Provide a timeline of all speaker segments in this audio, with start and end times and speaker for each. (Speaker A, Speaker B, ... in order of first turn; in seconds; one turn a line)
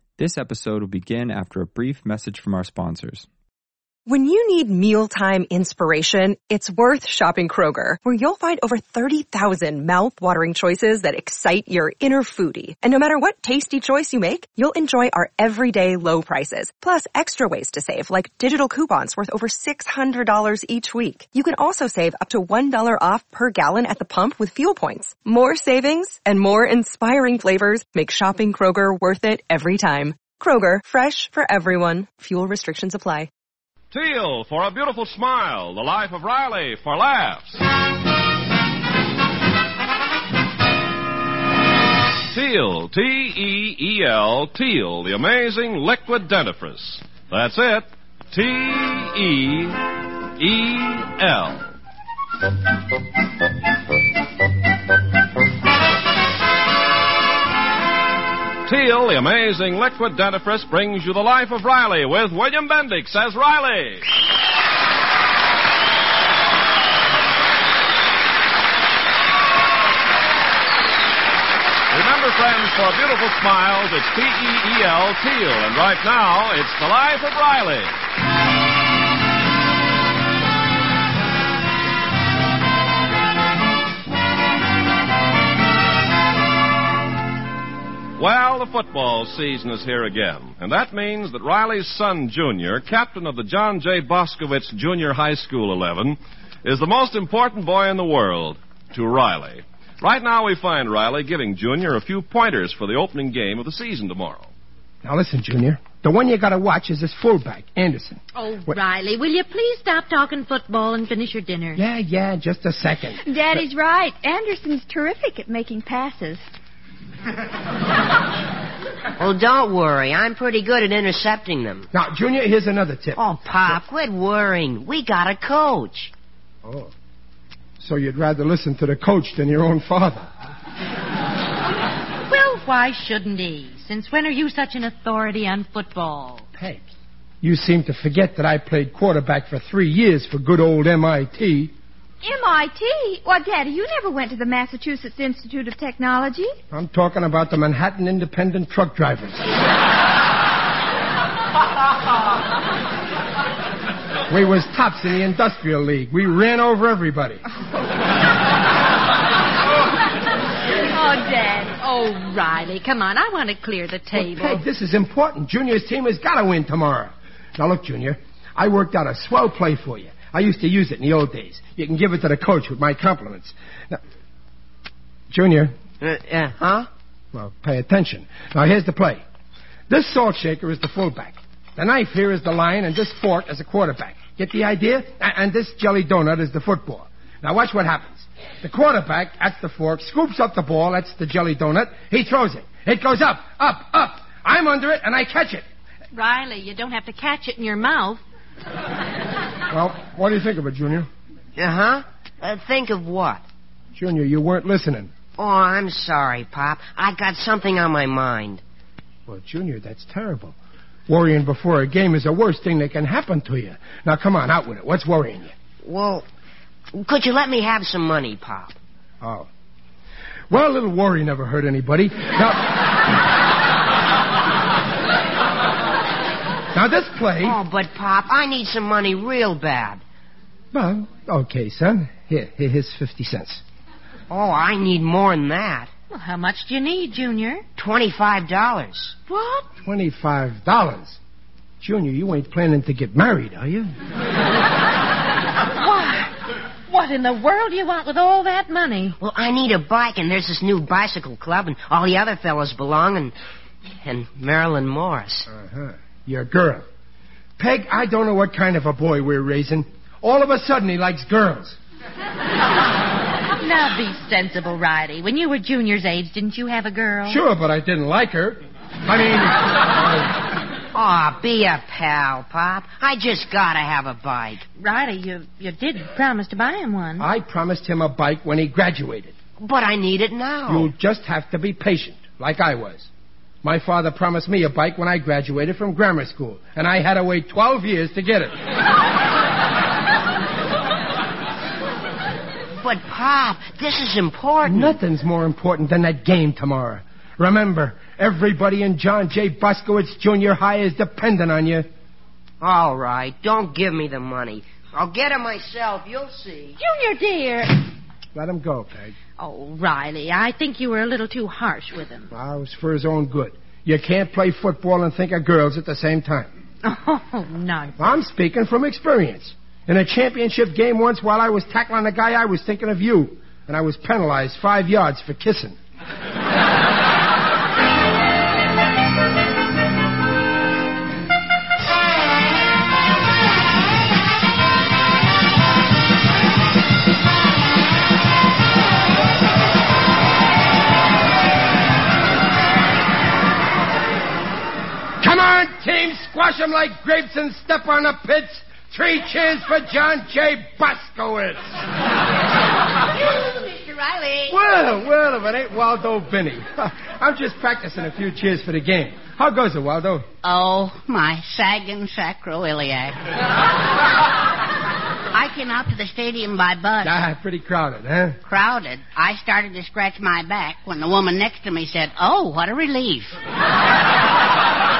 Speaker A: 0.2-3.3
Speaker B: 4.1-33.3
Speaker C: 33.9-37.6
Speaker C: 42.3-51.7
Speaker C: 58.6-64.0
Speaker C: 71.9-77.9
Speaker C: 88.2-104.5
Speaker D: 105.0-108.8
Speaker E: 108.3-111.8
Speaker D: 111.8-113.2
Speaker F: 113.2-116.4
Speaker G: 119.2-121.9
Speaker D: 121.9-123.2
Speaker G: 123.2-126.1
Speaker D: 126.6-126.9
Speaker D: 127.8-130.3
Speaker E: 132.3-136.5
Speaker D: 136.6-136.9
Speaker D: 137.4-141.7
Speaker F: 142.2-146.5
Speaker D: 146.7-149.5
Speaker D: 154.3-157.4
Speaker E: 160.9-164.6
Speaker D: 164.1-174.0
Speaker D: 175.3-175.7
Speaker G: 176.0-176.9
Speaker D: 177.3-179.2
Speaker D: 179.9-195.6
Speaker E: 196.1-198.2
Speaker D: 199.7-201.1
Speaker G: 201.6-203.4
Speaker D: 203.9-205.1
Speaker G: 205.4-208.6
Speaker D: 209.3-210.6
Speaker D: 211.1-215.5
Speaker G: 215.8-216.2
Speaker G: 216.9-218.8
Speaker D: 219.2-219.5
Speaker D: 220.5-222.8
Speaker D: 226.7-227.6
Speaker G: 227.4-230.0
Speaker D: 230.7-233.6
Speaker G: 234.3-235.9
Speaker E: 236.1-237.6
Speaker G: 237.8-239.2
Speaker E: 239.3-239.7
Speaker D: 239.8-241.2
Speaker D: 241.8-243.9
Speaker E: 245.8-246.3
Speaker E: 246.9-249.2
Speaker G: 249.2-253.3
Speaker G: 254.0-255.5
Speaker D: 255.5-256.9
Speaker D: 257.6-261.8
Speaker E: 263.6-267.4
Speaker D: 267.2-270.4
Speaker G: 270.9-274.6
Speaker E: 274.8-277.3
Speaker D: 277.2-279.3
Speaker G: 279.6-280.9
Speaker D: 280.7-283.1
Speaker D: 283.6-288.6
Speaker G: 292.8-295.0
Speaker D: 294.6-301.9
Speaker G: 302.6-306.8
Speaker E: 306.8-307.9
Speaker D: 308.3-309.1
Speaker E: 309.4-312.3
Speaker D: 312.3-316.5
Speaker E: 316.8-318.0
Speaker D: 318.0-325.8
Speaker D: 345.2-351.8
Speaker H: 353.3-354.6
Speaker D: 354.5-360.2
Speaker H: 360.4-363.2
Speaker H: 365.3-367.1
Speaker D: 367.0-368.4
Speaker H: 368.4-373.4